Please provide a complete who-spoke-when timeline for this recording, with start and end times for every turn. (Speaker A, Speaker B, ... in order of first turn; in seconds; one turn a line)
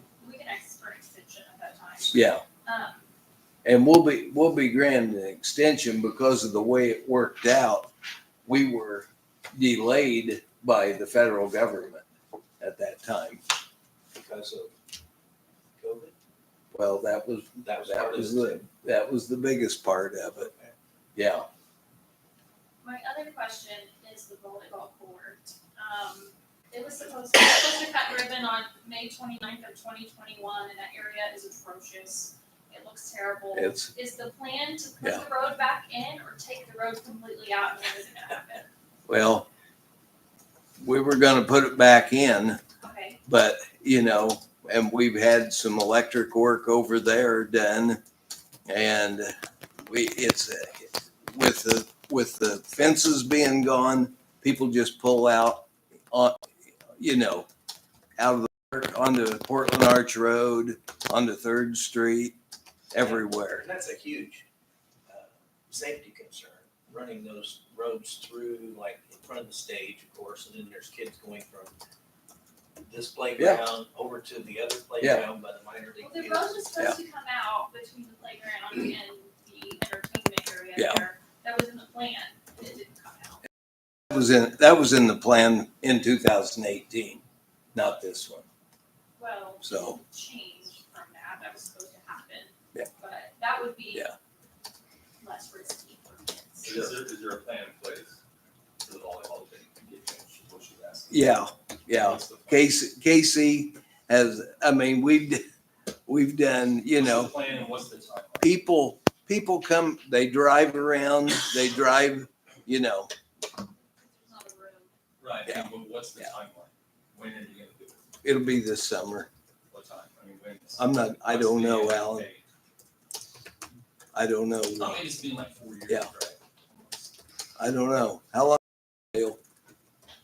Speaker A: 0.2-3.1
Speaker B: 2.1-2.4
Speaker B: 3.6-7.9
Speaker B: 8.5-12.0
Speaker B: 12.6-13.4
Speaker C: 14.1-14.7
Speaker C: 15.8-16.1
Speaker B: 16.7-20.5
Speaker C: 17.6-18.6
Speaker C: 20.4-20.7
Speaker B: 21.2-21.5
Speaker A: 22.8-38.7
Speaker B: 33.5-33.9
Speaker B: 39.1-39.5
Speaker B: 40.8-42.6
Speaker A: 42.8-43.2
Speaker B: 43.3-48.0
Speaker B: 48.7-49.3
Speaker B: 49.9-56.4
Speaker B: 57.0-57.5
Speaker B: 58.2-62.4
Speaker B: 62.9-63.6
Speaker C: 63.0-64.5
Speaker C: 65.1-71.8
Speaker C: 72.8-76.6
Speaker B: 75.0-75.3
Speaker A: 76.0-83.4
Speaker B: 80.8-81.0
Speaker B: 84.1-87.2
Speaker B: 87.7-88.5
Speaker A: 89.2-94.1
Speaker B: 89.6-90.0
Speaker A: 95.2-96.9
Speaker D: 96.6-98.2
Speaker D: 98.8-102.8
Speaker B: 101.1-105.4
Speaker B: 106.1-107.3
Speaker D: 106.9-108.5
Speaker B: 108.4-113.1
Speaker A: 114.0-114.9
Speaker D: 115.2-118.0
Speaker B: 118.2-119.3
Speaker D: 119.7-122.4
Speaker B: 120.8-122.3
Speaker B: 124.1-125.0
Speaker D: 124.8-126.4
Speaker B: 127.6-128.6
Speaker B: 129.1-129.4